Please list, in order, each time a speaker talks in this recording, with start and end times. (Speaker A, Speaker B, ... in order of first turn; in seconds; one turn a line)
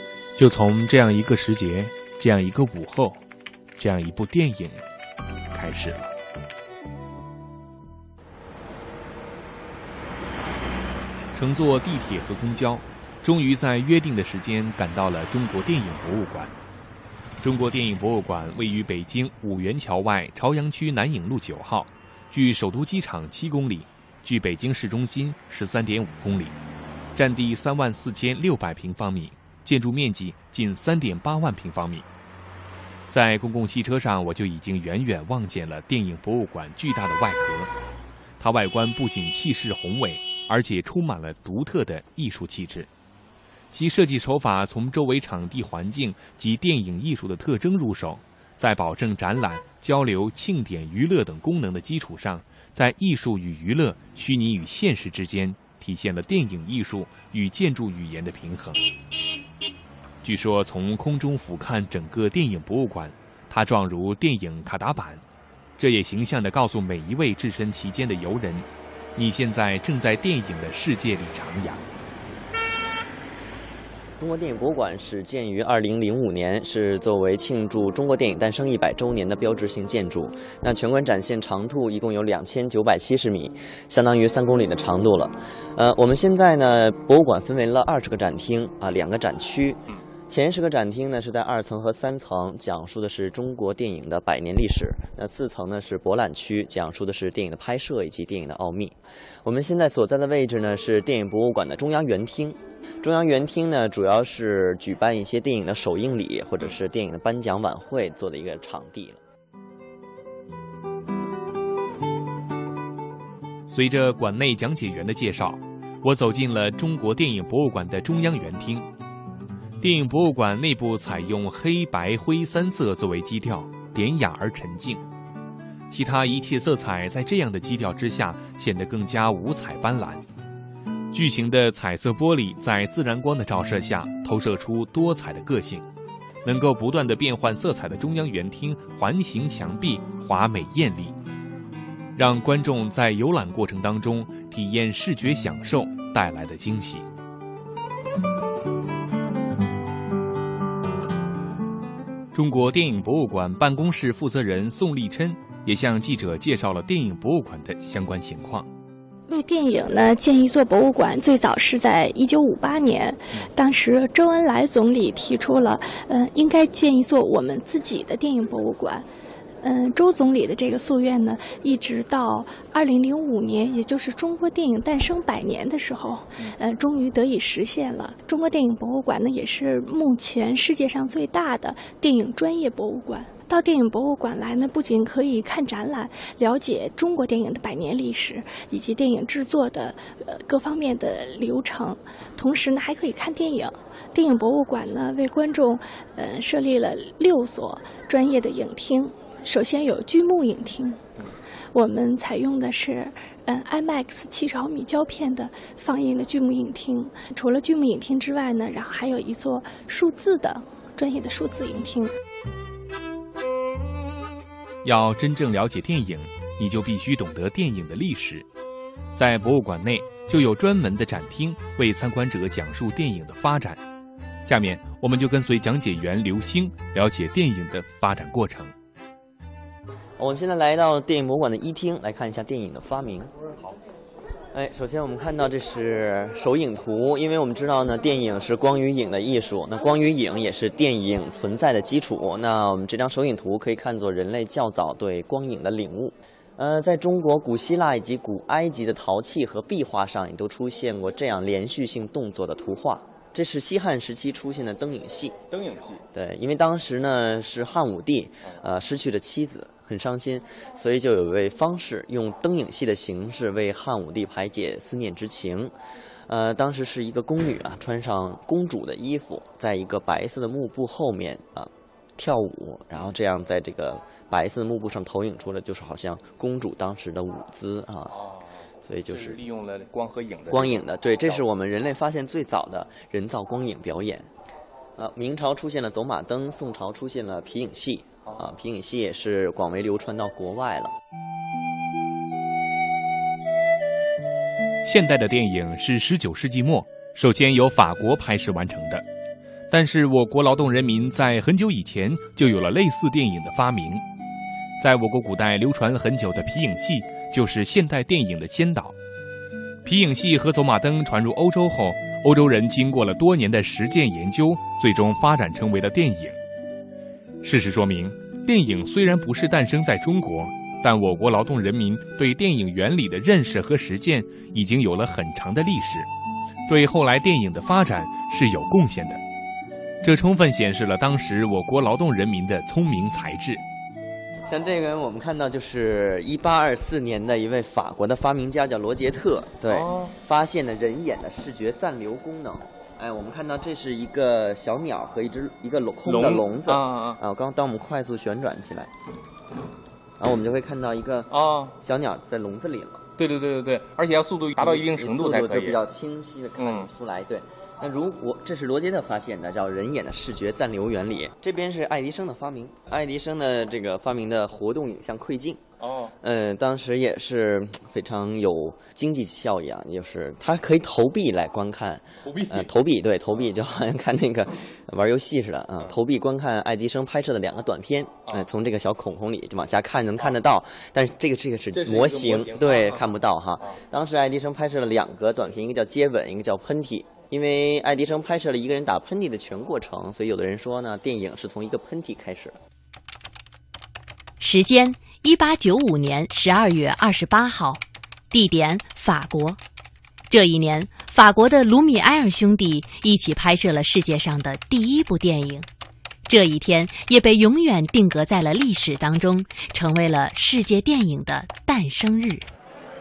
Speaker A: 0.4-3.2
Speaker A: 3.8-4.8
Speaker A: 5.5-6.1
Speaker A: 11.3-16.5
Speaker A: 17.4-26.6
Speaker A: 27.1-32.0
Speaker A: 33.1-37.7
Speaker A: 38.4-42.9
Speaker A: 43.7-58.8
Speaker A: 60.2-65.2
Speaker A: 65.8-71.8
Speaker B: 74.2-109.2
Speaker A: 113.7-118.9
Speaker A: 119.8-125.0
Speaker A: 125.9-130.2
Speaker A: 131.1-135.8
Speaker A: 136.4-141.2
Speaker A: 142.2-147.1
Speaker A: 152.3-158.7
Speaker C: 159.3-169.1
Speaker C: 169.6-201.0
Speaker C: 201.7-212.1
Speaker A: 214.8-218.4
Speaker A: 219.2-223.8
Speaker A: 224.4-228.7
Speaker B: 230.2-233.3
Speaker B: 234.5-255.4
Speaker B: 256.1-265.7
Speaker B: 266.3-278.2
Speaker B: 278.9-279.4
Speaker D: 279.2-280.7
Speaker B: 280.5-284.3
Speaker B: 285.0-290.9
Speaker A: 294.8-299.0
Speaker A: 299.7-304.0
Speaker A: 304.8-308.9
Speaker A: 309.9-316.4
Speaker A: 317.4-326.1
Speaker A: 326.7-329.2
Speaker A: 330.0-333.6
Speaker B: 334.5-348.9
Speaker D: 346.1-347.2
Speaker B: 350.2-353.0
Speaker D: 351.3-351.7
Speaker D: 353.2-355.8
Speaker B: 354.6-365.6
Speaker B: 366.2-392.6
Speaker D: 381.9-382.4
Speaker E: 394.4-397.8
Speaker E: 398.3-399.6
Speaker E: 400.3-405.6
Speaker E: 406.3-412.4